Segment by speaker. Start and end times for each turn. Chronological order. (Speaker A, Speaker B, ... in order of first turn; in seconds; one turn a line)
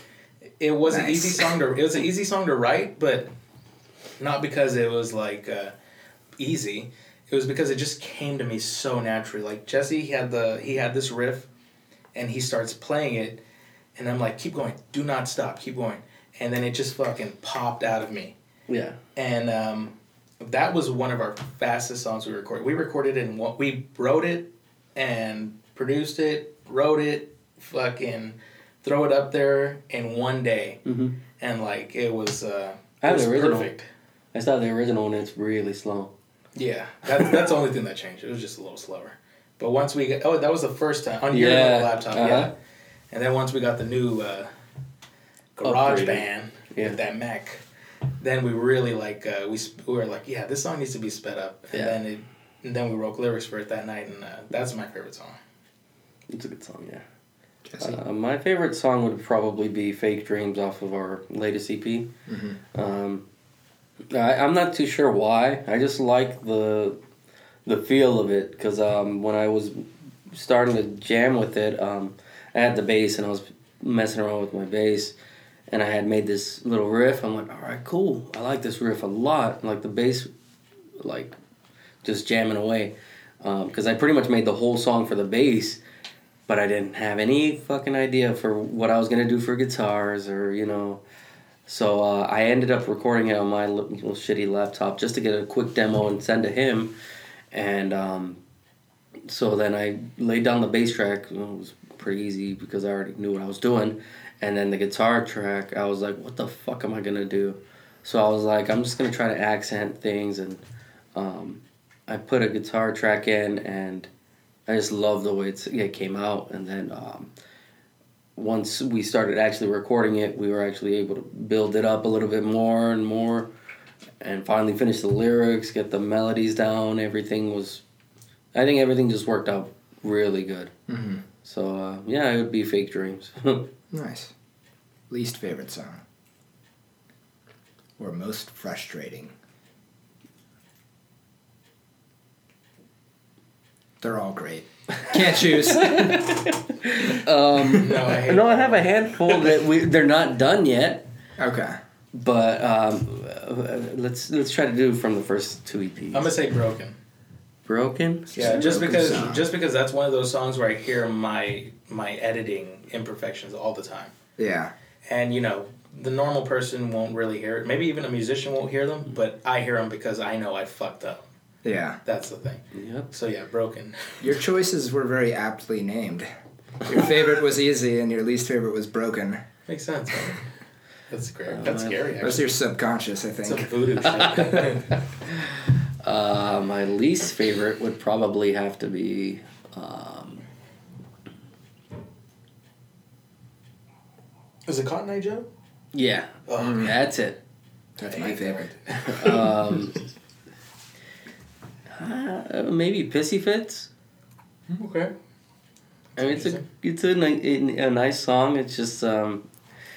Speaker A: 0.6-3.3
Speaker B: 0.8-1.5
Speaker A: 4.2-5.7
Speaker A: 6.4-11.5
Speaker A: 12.1-13.4
Speaker A: 13.9-18.3
Speaker C: 18.7-19.0
Speaker A: 19.1-30.8
Speaker C: 30.9-31.2
Speaker A: 31.4-33.9
Speaker C: 33.0-33.7
Speaker C: 34.3-36.1
Speaker A: 36.5-42.5
Speaker C: 41.3-42.5
Speaker A: 43.1-44.5
Speaker A: 45.5-47.6
Speaker C: 45.6-47.0
Speaker A: 48.2-55.4
Speaker C: 56.3-57.0
Speaker B: 57.6-58.0
Speaker C: 57.8-62.1
Speaker B: 62.3-62.6
Speaker C: 62.7-63.2
Speaker C: 64.1-67.0
Speaker C: 67.6-75.1
Speaker C: 75.7-80.3
Speaker C: 81.0-81.3
Speaker C: 82.0-85.8
Speaker C: 86.5-91.0
Speaker C: 91.7-96.9
Speaker C: 97.5-98.4
Speaker C: 99.2-110.6
Speaker C: 111.1-114.1
Speaker C: 114.7-117.3
Speaker C: 118.3-123.5
Speaker C: 124.2-127.8
Speaker C: 128.5-130.7
Speaker B: 130.9-131.2
Speaker C: 131.4-133.7
Speaker B: 133.9-134.3
Speaker B: 135.1-136.0
Speaker B: 138.0-139.3
Speaker B: 144.0-146.4
Speaker C: 145.2-151.1
Speaker B: 147.6-148.0
Speaker A: 147.7-148.9
Speaker B: 151.4-151.8
Speaker C: 152.1-156.3
Speaker A: 156.1-156.9
Speaker C: 157.7-158.8
Speaker B: 158.3-159.5
Speaker A: 158.4-164.1
Speaker B: 164.4-164.7
Speaker A: 165.1-171.3
Speaker B: 171.6-172.0
Speaker A: 172.1-174.4
Speaker C: 172.7-173.1
Speaker B: 174.2-176.3
Speaker B: 176.8-179.4
Speaker A: 179.7-180.4
Speaker A: 181.1-182.5
Speaker C: 181.5-182.1
Speaker B: 182.2-183.7
Speaker A: 183.4-185.0
Speaker C: 184.0-185.5
Speaker C: 186.0-190.4
Speaker A: 194.7-195.5
Speaker C: 195.9-197.4
Speaker A: 196.5-196.9
Speaker B: 196.6-196.9
Speaker B: 198.0-198.7
Speaker A: 198.0-199.3
Speaker C: 198.9-200.0
Speaker C: 201.9-203.9
Speaker A: 204.8-205.1
Speaker A: 206.2-206.6
Speaker C: 206.2-209.4